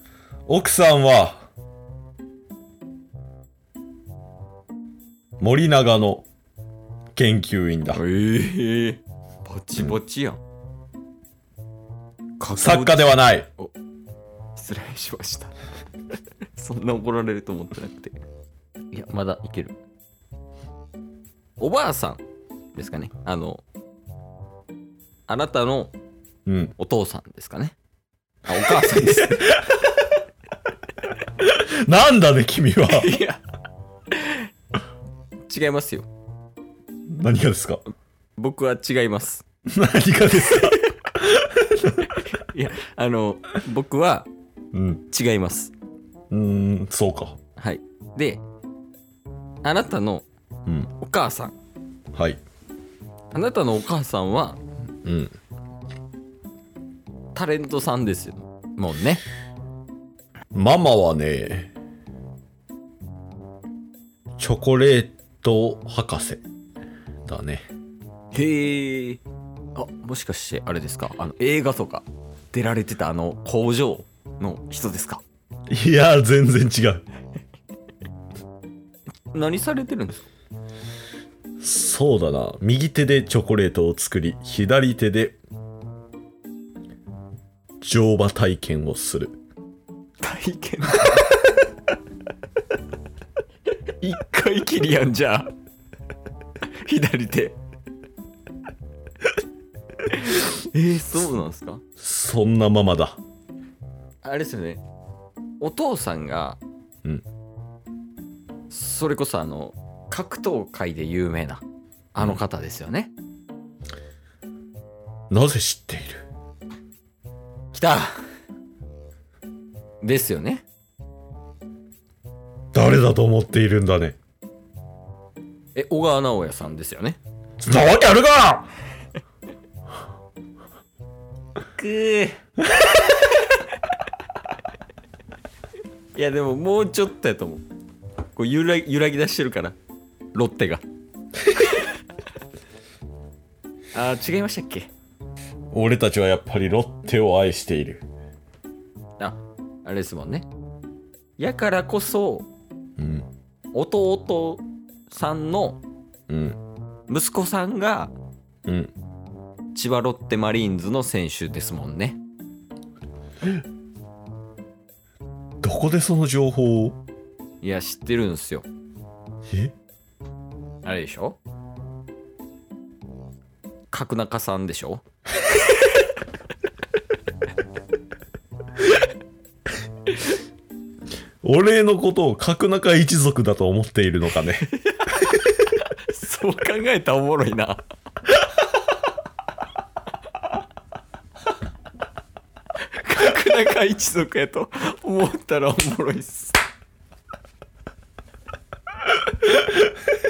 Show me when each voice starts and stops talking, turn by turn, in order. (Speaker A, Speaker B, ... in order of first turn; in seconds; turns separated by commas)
Speaker A: 0.5-1.5, Speaker A: 5.4-6.3, Speaker A: 7.2-8.0, Speaker B: 7.9-10.4, Speaker B: 12.4-13.7, Speaker A: 12.6-13.5, Speaker B: 14.6-15.6, Speaker B: 16.5-18.2, Speaker B: 18.9-19.8, Speaker B: 21.6-22.2, Speaker B: 22.8-23.6, Speaker B: 25.3-25.9, Speaker A: 26.5-26.7, Speaker B: 26.8-27.8, Speaker B: 28.5-29.6, Speaker A: 31.4-33.1, Speaker B: 32.9-33.4, Speaker B: 34.1-34.5, Speaker B: 35.5-36.1, Speaker A: 37.1-37.8, Speaker B: 38.4-39.5, Speaker A: 39.7-42.2, Speaker B: 40.5-41.0, Speaker B: 42.3-44.3, Speaker A: 44.7-45.0, Speaker B: 45.1-45.7, Speaker A: 46.3-47.4, Speaker B: 47.6-48.4, Speaker B: 49.6-50.2, Speaker B: 51.0-51.5, Speaker A: 52.1-52.4, Speaker B: 53.3-54.6, Speaker A: 55.0-55.3, Speaker B: 57.4-59.2, Speaker A: 60.5-61.7, Speaker A: 64.4-66.4, Speaker A: 67.3-67.7, Speaker B: 68.3-69.2, Speaker B: 69.8-75.2, Speaker A: 75.7-77.0, Speaker B: 79.3-80.3, Speaker A: 81.6-85.4, Speaker A: 87.8-89.4, Speaker B: 90.2-91.5, Speaker B: 94.0-95.5, Speaker B: 96.8-97.6, Speaker B: 100.1-101.8, Speaker A: 102.0-103.2, Speaker B: 104.2-104.8, Speaker B: 105.6-106.6, Speaker B: 108.7-111.6, Speaker B: 112.1-113.1, Speaker A: 115.3-116.3, Speaker B: 117.7-118.2, Speaker B: 120.0-120.6, Speaker A: 122.7-124.2, Speaker B: 125.8-127.2, Speaker A: 127.6-128.7, Speaker B: 131.8-132.4, Speaker B: 136.2-137.6, Speaker B: 138.3-139.8, Speaker B: 140.3-140.8, Speaker B: 141.4-141.9, Speaker B: 143.9-144.9, Speaker A: 145.7-148.0, Speaker B: 149.2-150.5, Speaker B: 151.4-152.5, Speaker A: 153.0-153.3, Speaker B: 153.7-155.8, Speaker A: 156.3-156.6, Speaker B: 157.1-158.2, Speaker A: 158.7-158.9, Speaker B: 159.8-162.2, Speaker A: 165.6-167.0, Speaker B: 167.6-168.7, Speaker A: 169.5-169.7, Speaker B: 170.8-171.4, Speaker B: 173.9-175.0, Speaker A: 181.4-184.7, Speaker B: 184.8-187.8, Speaker B: 192.9-196.6, Speaker A: 199.4-199.9